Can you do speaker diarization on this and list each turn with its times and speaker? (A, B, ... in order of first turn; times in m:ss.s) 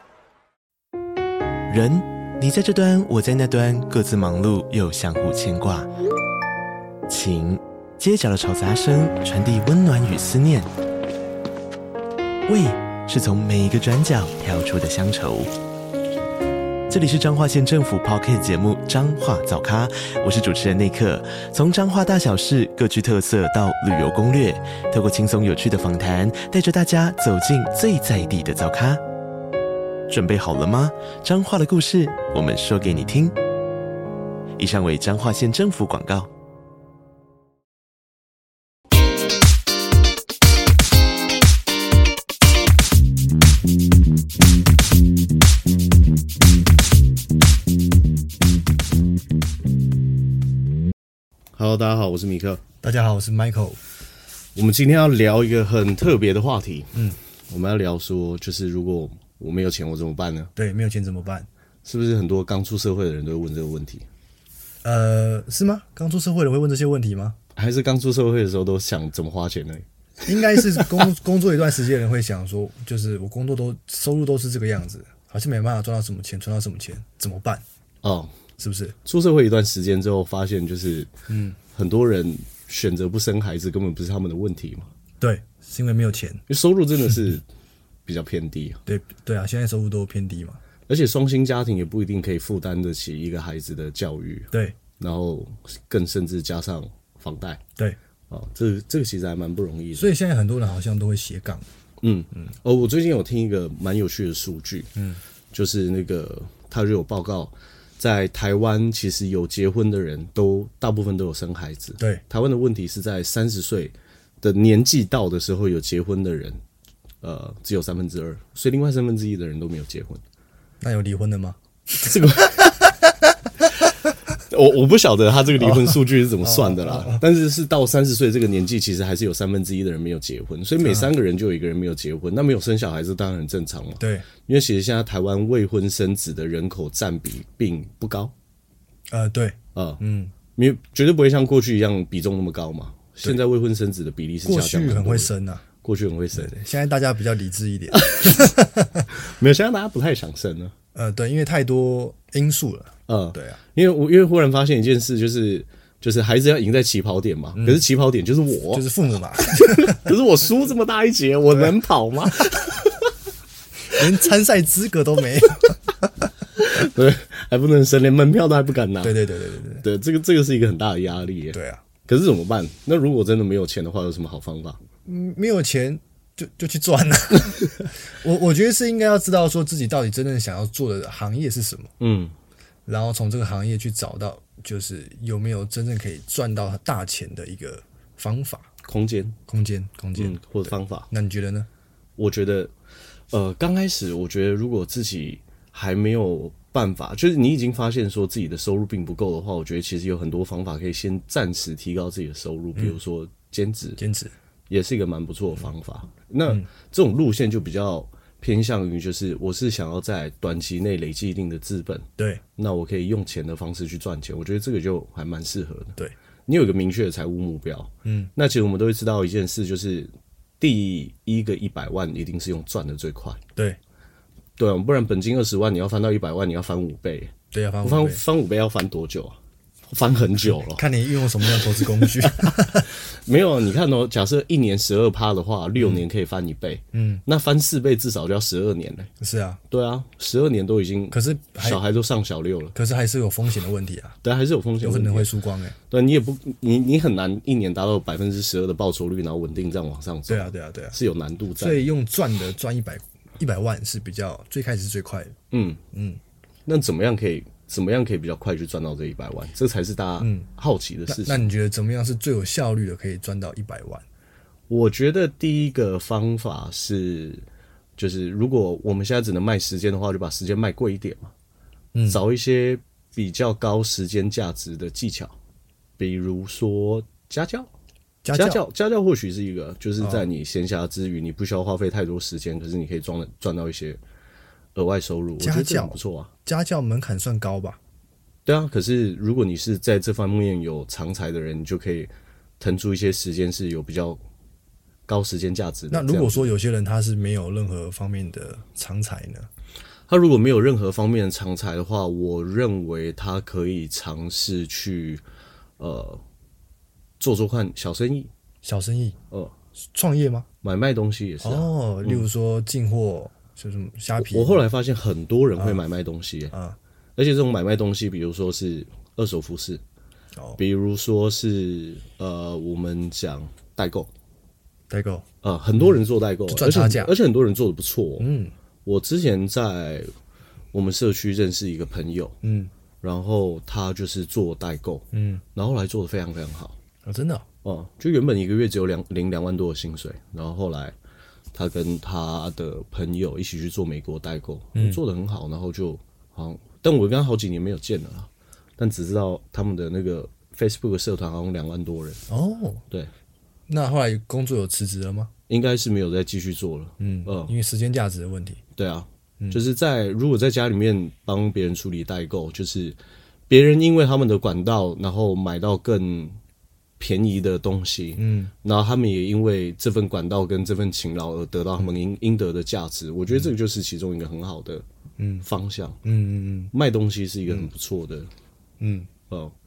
0:01.7-0:05.9 A
0:07.1-0:10.7 A
0:12.5-0:15.5 A
0:16.9-0:29.0 A
0:30.1-0:33.3 A
0:34.6-0:36.3 A
0:51.6-0:52.6 B
0:52.8-0:53.8 C
0:54.6-1:00.5 B
1:00.6-1:01.5 C
1:01.8-1:04.1 B
1:04.8-1:07.4 C
1:07.6-1:11.0 B
1:10.3-1:17.6 C
1:18.0-1:18.4 B
1:18.6-1:19.0 C
1:19.0-1:21.1 B
1:21.3-1:21.6 C
1:21.7-1:24.9 B
1:25.2-1:26.4 C
1:26.5-1:27.4 B
1:28.1-1:28.8 B
1:28.8-1:30.6 C
1:30.9-1:37.6 B
1:34.5-1:34.8 C
1:38.3-1:40.1 B
1:39.9-1:41.7 C
1:42.0-1:44.9 B
1:45.0-1:45.2 C
1:45.5-1:56.6 B
1:57.2-2:00.2 B
2:00.8-2:01.6 C
2:02.0-2:02.8 B
2:04.5-2:18.3 B
2:05.6-2:07.2 C
2:10.8-2:11.1 C
2:14.0-2:14.3 C
2:19.1-2:20.3 C
2:19.8-2:20.0 B
2:20.6-2:25.3 B
2:24.4-2:25.6 C
2:25.8-2:26.5 B
2:26.3-2:29.1 C
2:27.9-2:28.5 B
2:29.1-2:30.7 B
2:30.9-2:33.6 C
2:33.1-2:38.9 B
2:37.6-2:37.8 C
2:38.7-2:40.1 C
2:39.4-2:43.0 B
2:43.9-2:46.1 C
2:46.6-2:49.2 B
2:49.0-2:49.8 C
2:49.8-2:54.8 B
2:51.5-2:51.8 C
2:55.0-3:01.9 C
3:02.0-3:02.3 B
3:02.9-3:08.7 C
3:08.8-3:09.4 B
3:09.5-3:10.4 C
3:10.2-3:11.1 B
3:11.1-3:11.7 C
3:12.2-3:12.7 B
3:13.3-3:24.0 B
3:24.0-3:24.3 C
3:24.7-3:43.4 B
3:38.0-3:38.3 C
3:44.6-3:49.4 B
3:47.5-3:48.2 C
3:49.9-3:50.9 B
3:50.5-3:52.9 C
3:51.5-3:59.1 B
3:55.8-3:56.0 C
3:56.9-3:57.2 C
3:59.2-3:59.6 C
3:59.7-4:02.8 B
4:01.1-4:01.8 C
4:02.8-4:04.2 C
4:04.2-4:05.3 B
4:04.8-4:05.8 C
4:05.9-4:11.8 B
4:10.3-4:11.0 C
4:11.6-4:15.4 C
4:15.5-4:15.8 B
4:15.9-4:16.2 C
4:16.7-4:21.4 B
4:20.2-4:20.5 C
4:21.1-4:24.0 C
4:24.7-4:27.4 B
4:28.0-4:31.3 B
4:31.9-4:32.2 C
4:32.1-4:35.4 B
4:36.0-4:37.7 B
4:38.2-4:38.6 C
4:38.3-4:44.0 B
4:40.0-4:40.3 C
4:44.8-4:46.3 B
4:45.4-4:47.8 C
4:48.4-4:54.2 B
4:55.1-4:56.5 B
4:55.9-4:59.5 C
5:00.1-5:05.2 B
5:05.8-5:06.2 B
5:07.2-5:08.3 B
5:08.6-5:09.2 C
5:09.8-5:10.5 C
5:10.6-5:12.2 B
5:11.4-5:14.6 C
5:14.2-5:16.5 B
5:15.6-5:15.8 C
5:16.5-5:16.8 C
5:17.2-5:19.8 B
5:20.6-5:24.1 B
5:24.9-5:25.2 C
5:25.4-5:28.3 B
5:25.8-5:27.1 C
5:28.2-5:28.6 C
5:28.8-5:30.1 B
5:30.7-5:32.4 B
5:32.4-5:32.7 C
5:33.0-5:36.8 B
5:35.1-5:35.4 C
5:37.0-5:37.4 C
5:37.6-5:40.9 B
5:41.5-5:52.2 B
5:44.8-5:45.0 C
5:52.3-5:52.8 C
5:53.7-5:55.3 C
5:55.5-5:57.5 B
5:57.0-5:58.6 C
5:58.8-6:03.0 B
6:03.5-6:06.4 B
6:07.0-6:14.8 B
6:08.2-6:08.5 C
6:15.2-6:15.4 C
6:15.4-6:16.0 B
6:16.0-6:16.7 C
6:16.7-6:18.3 B
6:18.8-6:19.1 C